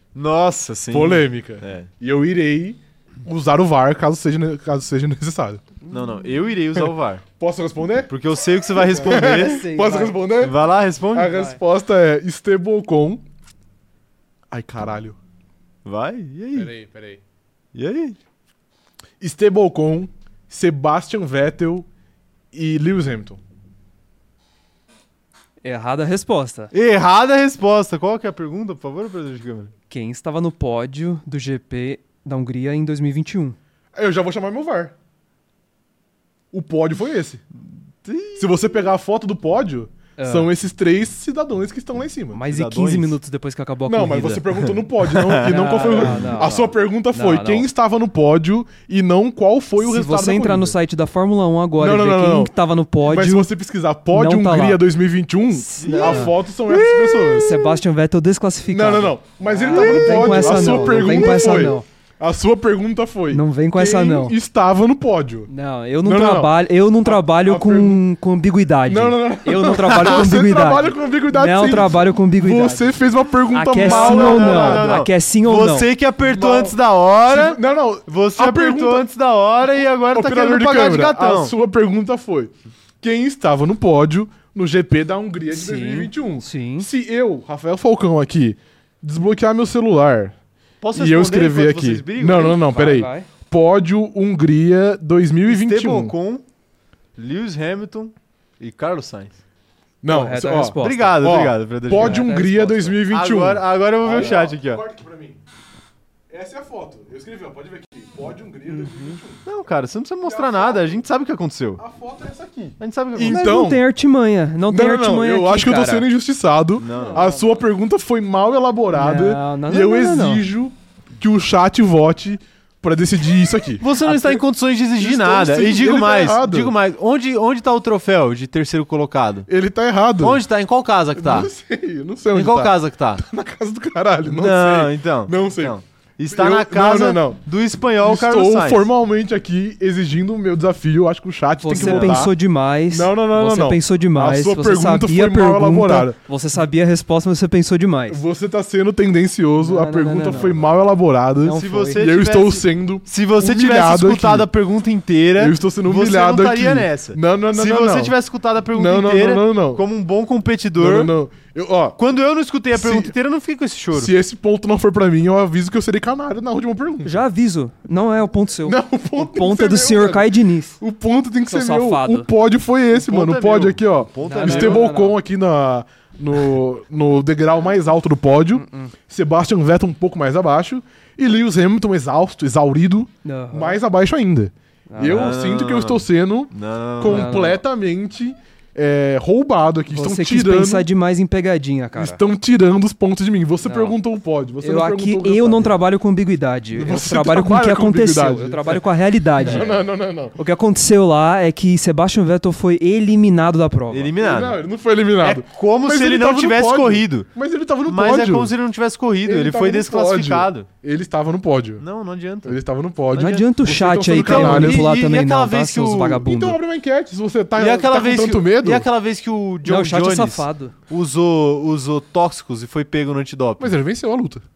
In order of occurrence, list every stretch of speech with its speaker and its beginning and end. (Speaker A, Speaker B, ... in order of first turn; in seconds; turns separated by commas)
Speaker A: 0.1-1.9, Speaker B: 0.9-5.6, Speaker A: 5.9-7.2, Speaker B: 7.4-8.1, Speaker A: 8.1-9.7, Speaker B: 8.7-13.2, Speaker C: 9.0-10.2, Speaker A: 10.4-11.3, Speaker C: 11.3-11.6, Speaker B: 14.5-15.2, Speaker A: 15.8-16.7, Speaker B: 16.5-17.2, Speaker A: 17.7-18.2, Speaker B: 19.2-21.9, Speaker B: 22.5-23.4, Speaker C: 25.6-26.7, Speaker A: 26.7-29.7, Speaker C: 29.9-33.6, Speaker B: 33.9-34.9, Speaker B: 36.5-37.4, Speaker A: 38.0-38.5, Speaker B: 38.4-42.4, Speaker C: 40.2-40.5, Speaker C: 42.3-44.5, Speaker A: 42.5-43.2, Speaker B: 43.9-50.8, Speaker A: 44.6-46.3, Speaker C: 45.4-47.7, Speaker C: 49.8-53.5, Speaker B: 51.8-52.5, Speaker B: 53.0-57.5, Speaker C: 54.1-54.8, Speaker C: 55.5-56.3, Speaker A: 55.8-57.8, Speaker C: 57.3-61.9, Speaker B: 58.7-65.5, Speaker A: 59.6-61.1, Speaker C: 63.3-64.3, Speaker C: 65.5-73.0, Speaker B: 66.0-68.0, Speaker B: 68.9-75.0, Speaker A: 69.8-70.2, Speaker C: 73.5-75.9, Speaker A: 73.8-81.5, Speaker B: 76.2-79.1, Speaker B: 79.8-90.3, Speaker C: 85.5-86.9, Speaker A: 90.8-92.6, Speaker B: 90.9-96.1, Speaker C: 92.6-93.3, Speaker A: 95.5-96.4, Speaker A: 97.2-99.4, Speaker B: 100.0-105.4, Speaker C: 100.1-101.2, Speaker A: 100.8-102.3, Speaker C: 102.0-102.9, Speaker A: 103.0-104.8, Speaker B: 106.3-109.4, Speaker C: 108.7-109.2, Speaker A: 109.4-111.8, Speaker B: 110.2-111.0, Speaker B: 111.8-113.8, Speaker A: 112.8-113.5, Speaker C: 113.3-116.0, Speaker B: 114.7-124.4, Speaker A: 116.8-117.3, Speaker C: 116.9-117.4, Speaker C: 118.9-120.4, Speaker A: 123.8-129.5, Speaker B: 125.0-126.7, Speaker B: 129.5-130.4, Speaker A: 130.2-131.5, Speaker B: 131.1-135.7, Speaker A: 132.3-133.2, Speaker A: 134.2-138.9, Speaker B: 136.3-137.4, Speaker B: 138.0-142.3, Speaker C: 141.6-148.2, Speaker A: 141.7-142.2, Speaker B: 142.9-146.2, Speaker B: 148.1-154.5, Speaker C: 149.6-150.6, Speaker C: 151.4-151.9, Speaker A: 151.5-161.1, Speaker B: 155.4-158.1, Speaker B: 158.7-159.8, Speaker B: 160.8-162.0, Speaker A: 162.0-164.1, Speaker B: 162.7-163.1, Speaker B: 163.9-167.2, Speaker C: 167.0-170.8, Speaker B: 168.6-170.3, Speaker B: 170.8-190.9, Speaker C: 171.5-172.3, Speaker A: 172.9-174.9, Speaker C: 174.2-175.2, Speaker C: 178.5-178.9, Speaker C: 183.2-183.8, Speaker C: 184.9-185.3, Speaker A: 185.0-187.4, Speaker C: 187.0-187.6, Speaker C: 189.9-192.2, Speaker B: 191.9-195.7, Speaker C: 193.6-194.0, Speaker C: 194.6-199.7, Speaker B: 196.7-198.8, Speaker B: 199.4-200.3, Speaker A: 199.4-199.8, Speaker C: 200.3-204.1, Speaker A: 203.9-204.6, Speaker B: 204.2-208.5, Speaker A: 205.2-207.3, Speaker A: 207.8-210.7, Speaker B: 209.2-211.8, Speaker A: 211.8-212.6, Speaker B: 212.4-214.9, Speaker C: 213.1-216.6, Speaker A: 213.1-213.4, Speaker A: 214.1-216.2, Speaker B: 216.2-218.9, Speaker A: 217.6-223.8, Speaker C: 219.6-220.7, Speaker B: 223.6-224.4